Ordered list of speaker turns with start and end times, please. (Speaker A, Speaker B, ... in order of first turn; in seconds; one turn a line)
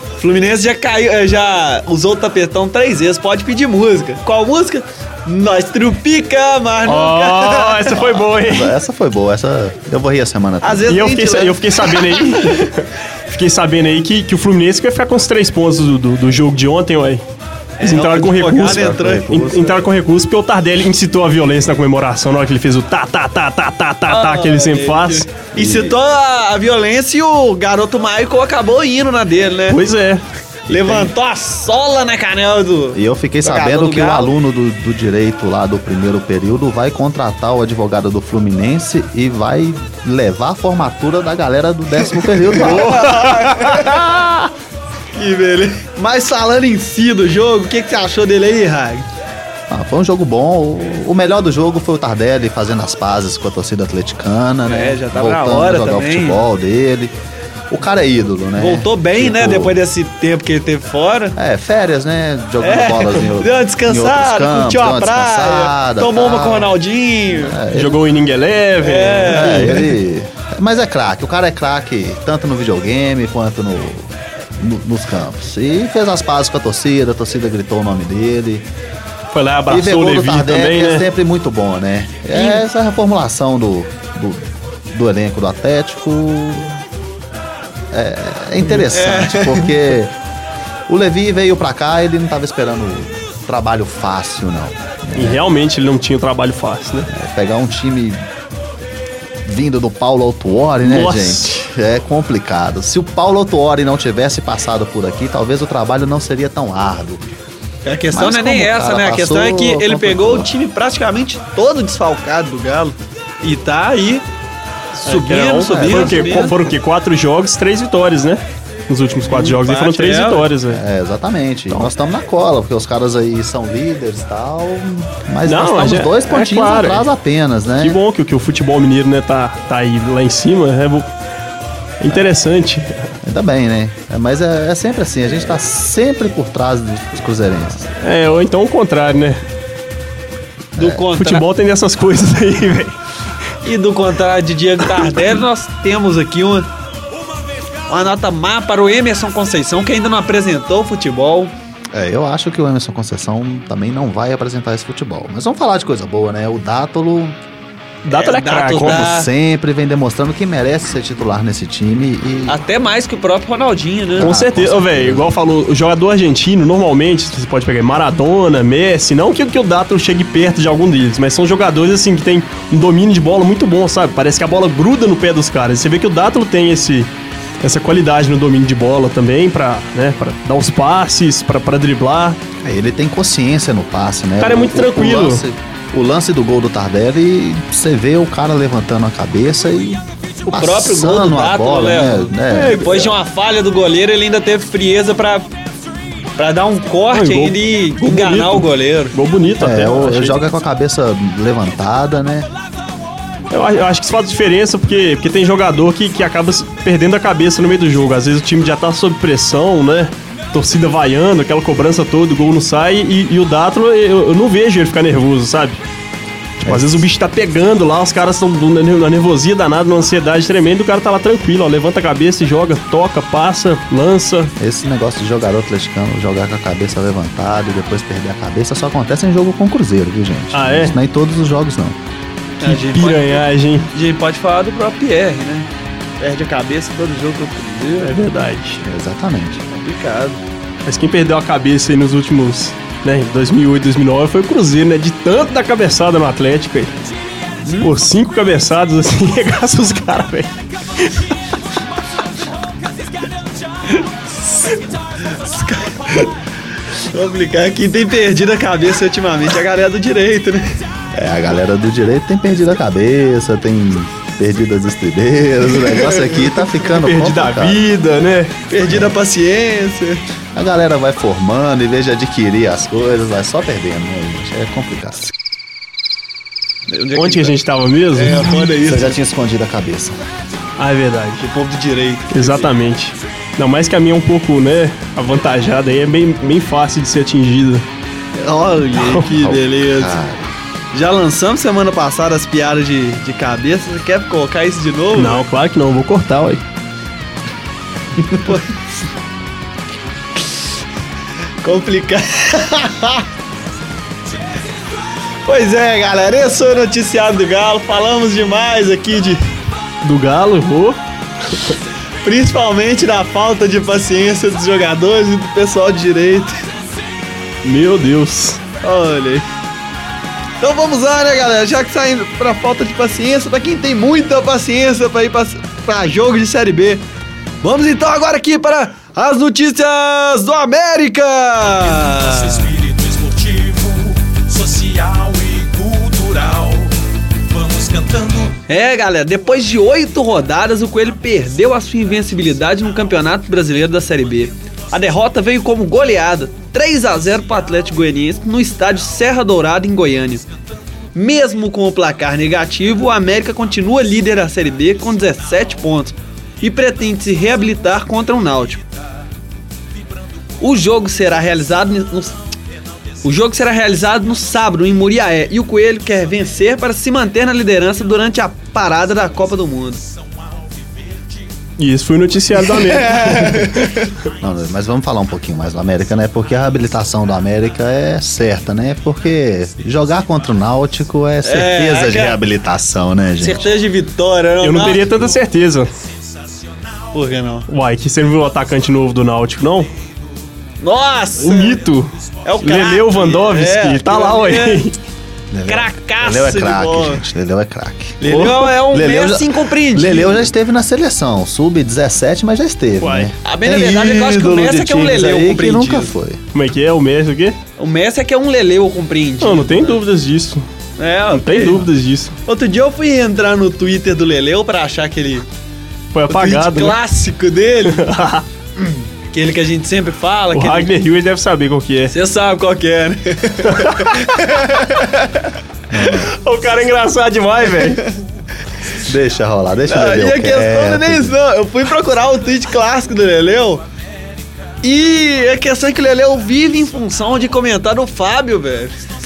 Speaker A: 0.2-8.0
Speaker B: 6.8-8.8
Speaker C: 8.0-11.0
Speaker A: 10.6-12.7
Speaker B: 10.9-17.2
Speaker A: 17.8-19.4
Speaker B: 17.8-25.3
Speaker C: 18.6-19.8
Speaker A: 24.1-29.8
Speaker C: 25.5-25.9
Speaker B: 29.7-30.2
Speaker A: 30.7-34.4
Speaker C: 30.7-31.1
Speaker C: 32.9-43.2
Speaker A: 42.6-44.0
Speaker B: 42.6-44.5
Speaker A: 45.1-49.1
Speaker C: 49.7-57.1
Speaker A: 54.7-56.4
Speaker C: 57.7-59.8
Speaker A: 58.6-61.4
Speaker C: 61.4-66.8
Speaker A: 62.6-67.6
Speaker C: 67.3-68.0
Speaker B: 67.7-69.9
Speaker A: 68.8-69.8
Speaker C: 69.3-78.7
Speaker B: 79.3-81.1
Speaker C: 79.7-86.8
Speaker C: 87.9-90.1
Speaker A: 88.8-89.8
Speaker C: 90.9-95.4
Speaker B: 95.2-97.1
Speaker C: 97.1-98.2
Speaker C: 99.4-107.3
Speaker B: 100.8-101.7
Speaker A: 107.8-114.2
Speaker C: 108.1-110.5
Speaker B: 115.0-120.8
Speaker A: 115.0-116.6
Speaker C: 115.7-116.2
Speaker A: 119.3-120.5
Speaker C: 120.7-128.0
Speaker B: 125.5-127.1
Speaker B: 127.8-131.1
Speaker B: 132.0-133.1
Speaker C: 133.2-137.9
Speaker B: 138.0-139.4
Speaker C: 140.8-141.0
Speaker A: 140.8-141.4
Speaker B: 141.1-143.0
Speaker A: 143.6-146.7
Speaker A: 147.9-151.5
Speaker C: 151.9-157.4
Speaker B: 158.1-159.1
Speaker A: 158.1-159.3
Speaker C: 158.8-162.6
Speaker A: 162.5-164.3
Speaker C: 164.2-165.3
Speaker B: 164.2-177.1
Speaker B: 177.6-182.4
Speaker C: 182.6-193.1
Speaker B: 184.4-185.4
Speaker A: 190.5-195.5
Speaker B: 192.5-192.8
Speaker A: 196.4-199.2
Speaker B: 197.1-200.4
Speaker C: 199.6-202.5
Speaker B: 203.5-215.8
Speaker C: 216.6-217.1
Speaker B: 216.7-224.5
Speaker C: 224.6-232.0
Speaker B: 230.5-231.0
Speaker A: 232.6-235.7
Speaker B: 232.6-233.9
Speaker A: 236.2-238.2
Speaker B: 238.0-238.8
Speaker C: 238.8-239.6
Speaker A: 239.7-240.4
Speaker B: 240.9-246.9
Speaker B: 247.8-251.3
Speaker A: 253.9-256.4
Speaker A: 256.9-260.8
Speaker C: 261.1-267.8
Speaker A: 265.9-266.6
Speaker B: 266.9-268.6
Speaker A: 268.7-270.2
Speaker C: 270.6-275.3
Speaker A: 276.9-277.6
Speaker B: 277.1-278.6
Speaker A: 278.1-279.2
Speaker C: 278.8-280.2
Speaker B: 280.8-281.4
Speaker A: 281.4-282.7
Speaker B: 282.3-287.9
Speaker A: 288.4-290.2
Speaker B: 289.0-289.3
Speaker C: 289.2-290.5
Speaker A: 290.9-295.4
Speaker B: 295.1-296.6
Speaker A: 298.4-299.0
Speaker A: 301.6-303.3
Speaker A: 305.5-309.4
Speaker B: 310.0-311.0
Speaker A: 312.2-316.6
Speaker B: 317.6-318.6
Speaker A: 318.8-319.5
Speaker A: 320.6-327.0
Speaker A: 327.6-332.7
Speaker D: 331.8-336.9
Speaker D: 337.5-338.6
Speaker A: 338.7-350.4
Speaker A: 351.1-358.8
Speaker A: 360.6-362.4
Speaker A: 363.2-370.0
Speaker B: 371.8-374.0
Speaker A: 372.7-374.0
Speaker C: 374.4-383.7
Speaker A: 381.4-382.4
Speaker A: 383.4-385.1
Speaker B: 384.6-385.9
Speaker A: 387.1-387.7
Speaker B: 387.7-389.9
Speaker A: 390.8-391.8
Speaker B: 391.4-394.9
Speaker A: 392.4-394.8
Speaker C: 395.5-398.3
Speaker A: 395.7-397.2
Speaker A: 398.2-400.5
Speaker B: 398.2-398.8
Speaker C: 398.8-406.4
Speaker B: 403.0-403.4
Speaker A: 403.4-406.1
Speaker B: 406.5-407.6
Speaker A: 407.8-410.0
Speaker B: 409.4-410.7
Speaker A: 411.0-411.9
Speaker B: 411.3-412.4
Speaker A: 412.5-415.5
Speaker B: 416.1-417.0
Speaker A: 416.3-418.1
Speaker B: 417.9-418.4
Speaker A: 418.8-420.9
Speaker B: 420.5-422.1
Speaker A: 422.1-425.5
Speaker B: 423.7-424.6
Speaker C: 425.9-426.3
Speaker B: 426.2-428.1
Speaker C: 429.0-431.4
Speaker A: 429.9-433.8
Speaker A: 434.8-438.9